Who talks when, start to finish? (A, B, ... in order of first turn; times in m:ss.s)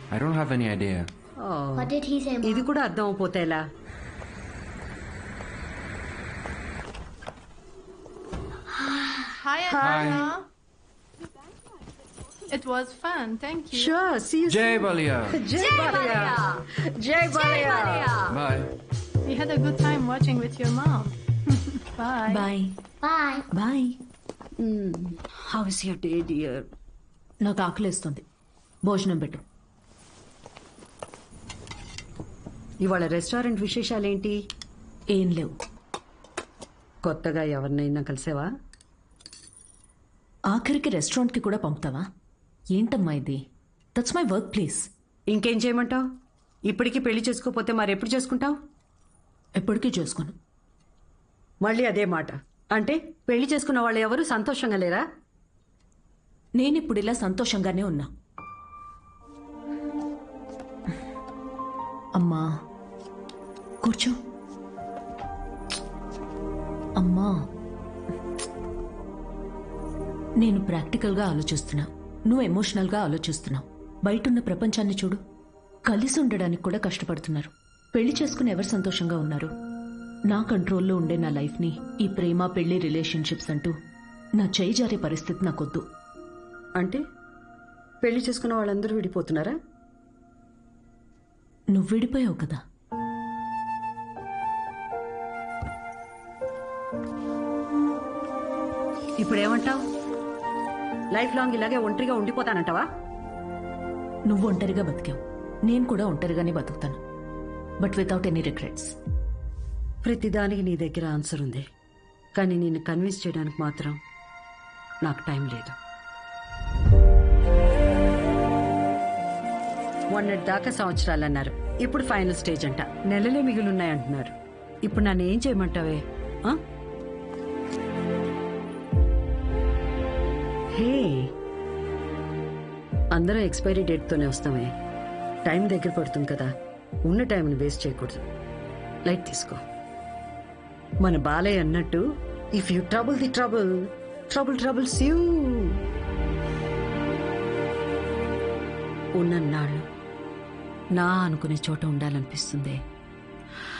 0:00.1-0:01.1 A
0:01.4-0:03.7 B
0:01.8-0:02.7 C
0:08.8-0:09.2 C
0:09.4-0:10.5 D
0:09.8-0:10.2 B
0:09.8-0:10.3 A
0:12.5-0:14.0 D
0:13.7-0:18.4 B
0:14.5-0:15.4 A
0:15.6-0:16.4 C
0:17.3-0:18.3 C
0:18.3-0:18.7 A
0:19.2-0:22.5 D
0:22.3-0:22.8 E
0:23.0-0:23.4 C
0:23.5-0:24.0 E
0:24.6-0:26.7 B
0:27.4-0:28.2 E
0:28.9-0:29.4 E
0:32.8-0:34.4 B
0:35.1-0:35.6 E
0:37.0-0:38.5 B
0:40.5-0:42.1 E
0:42.7-0:43.4 E
0:44.0-0:44.9 E
0:45.3-0:46.0 B
0:46.7-0:48.6 B
0:49.6-0:50.4 E
0:51.6-0:55.0 B
0:56.6-0:58.1 E
1:02.2-1:02.5 E
1:03.8-1:04.2 E
1:07.0-1:07.4 E
1:10.4-1:15.2 E
1:15.9-1:19.5 E
1:20.3-1:23.8 E
1:24.4-1:25.8 E
1:26.8-1:27.0 B
1:28.0-1:29.6 B
1:31.7-1:32.6 E
1:39.2-1:39.8 B
1:41.1-1:42.9 B
1:44.3-1:47.0 E
1:47.8-1:49.0 E
1:50.0-1:51.7 B
1:52.4-1:54.0 B
1:55.0-1:55.8 B
2:00.1-2:06.6 B
2:10.7-2:11.3 B
2:13.1-2:14.7 B
2:15.4-2:16.5 B
2:17.1-2:18.2 B
2:19.1-2:19.6 B
2:21.0-2:22.0 B
2:22.6-2:25.8 B
2:29.2-2:29.8 B
2:31.0-2:32.8 B